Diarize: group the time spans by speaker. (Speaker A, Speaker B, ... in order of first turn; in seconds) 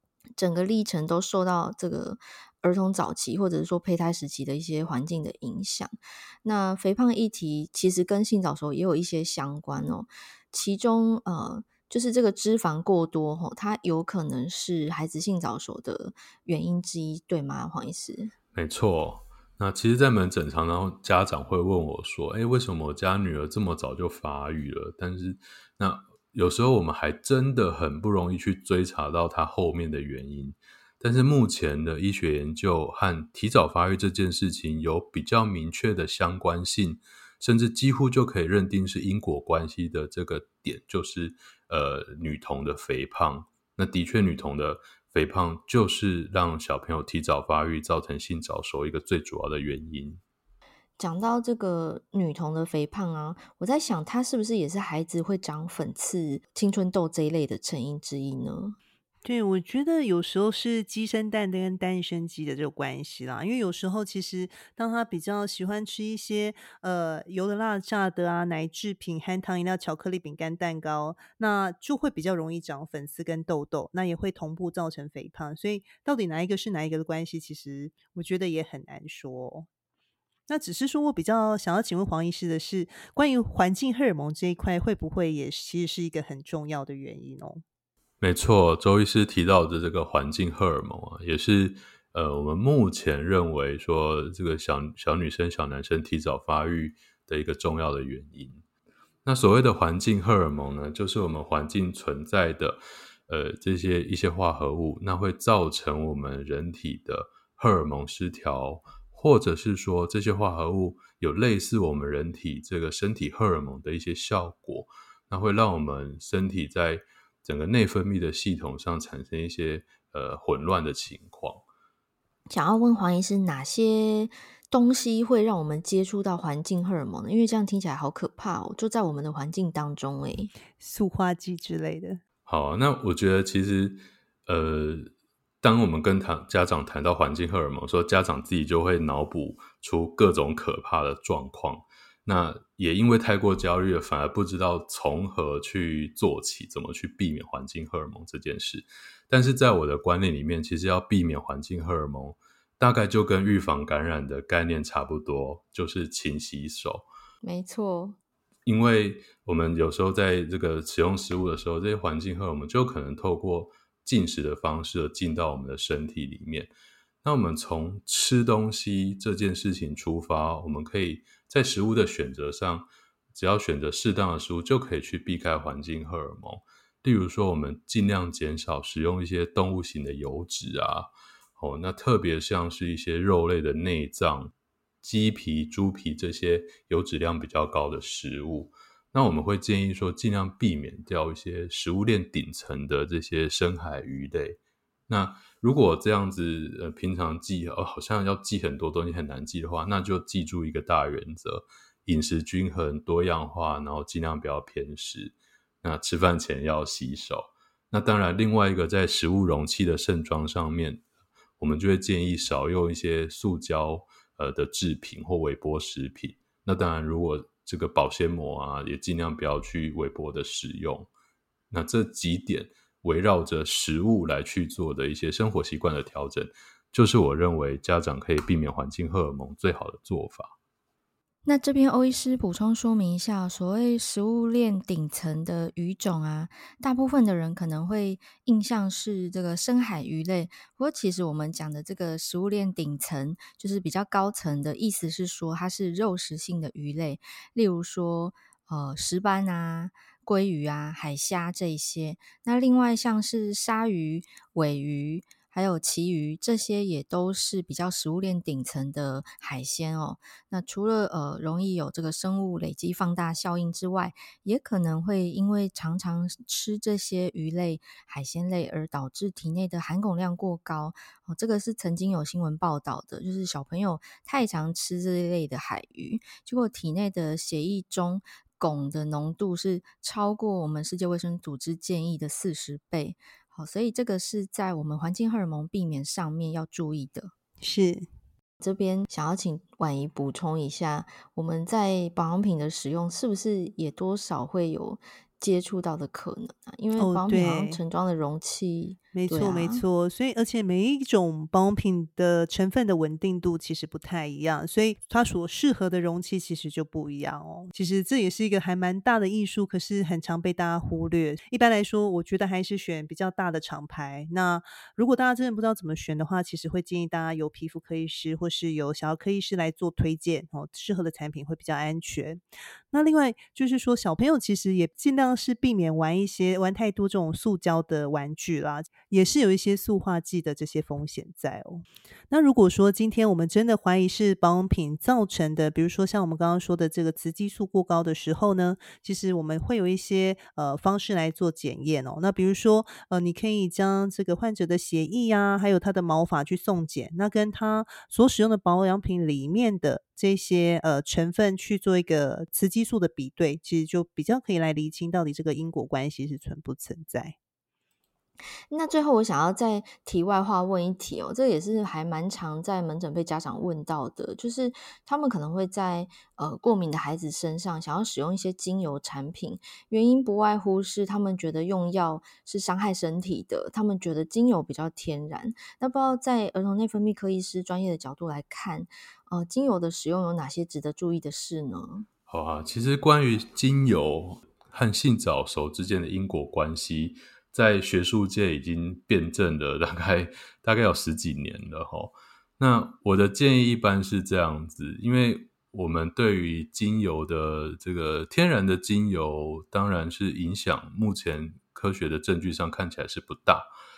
Speaker A: 0.4-18.3, 51.0-58.8, 122.5-130.5, 157.4-158.2, 231.4-287.3, 288.6-299.8, 358.7-382.1
Speaker B: 18.5-50.2, 88.2-98.6, 99.2-121.6, 132.4-135.1, 135.6-157.1, 158.7-166.7, 167.2-211.0, 211.6-221.1, 221.7-230.5, 382.3-403.7
Speaker C: 59.2-79.7, 80.5-87.6, 130.8-132.2, 287.6-288.1, 297.0-297.8, 299.1-357.3